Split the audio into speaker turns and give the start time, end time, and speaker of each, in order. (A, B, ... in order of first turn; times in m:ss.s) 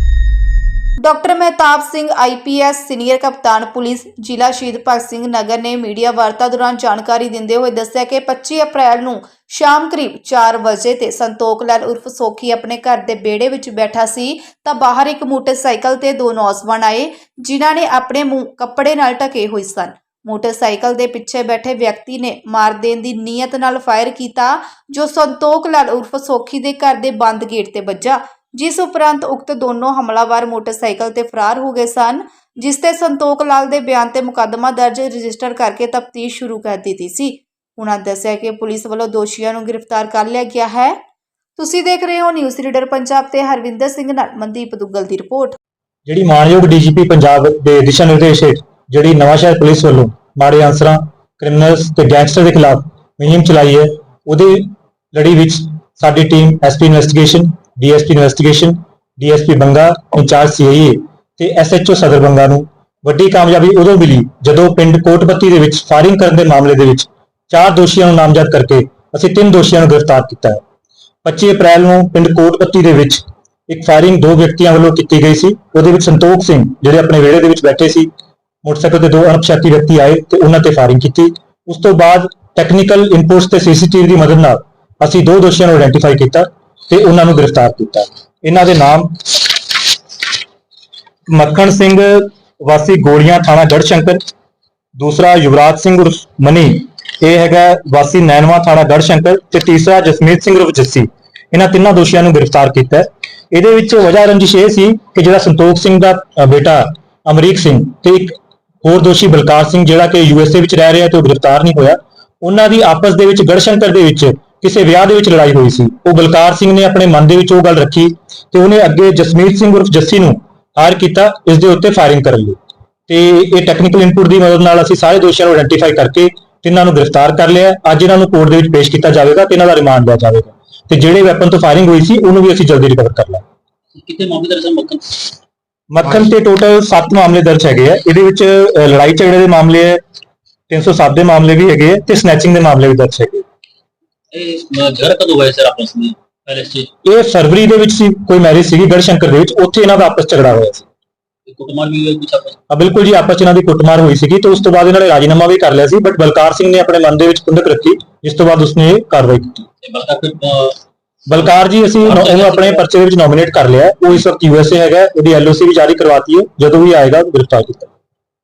0:01.0-0:41.0 A
0:41.6-0:45.6 A
0:46.1-1:10.6 B
1:11.2-1:18.1 B
1:18.6-1:29.3 B
1:31.3-1:34.2 B
1:35.0-2:02.6 B
2:03.1-2:13.4 B
2:13.9-2:15.3 C
2:15.9-2:20.0 B
2:20.7-2:23.4 B
2:24.3-2:26.9 C
2:27.0-2:30.8 B
2:31.5-2:32.6 C
2:32.7-2:39.7 B
2:39.8-2:40.8 C
2:41.3-2:47.9 B
2:42.0-2:42.8 C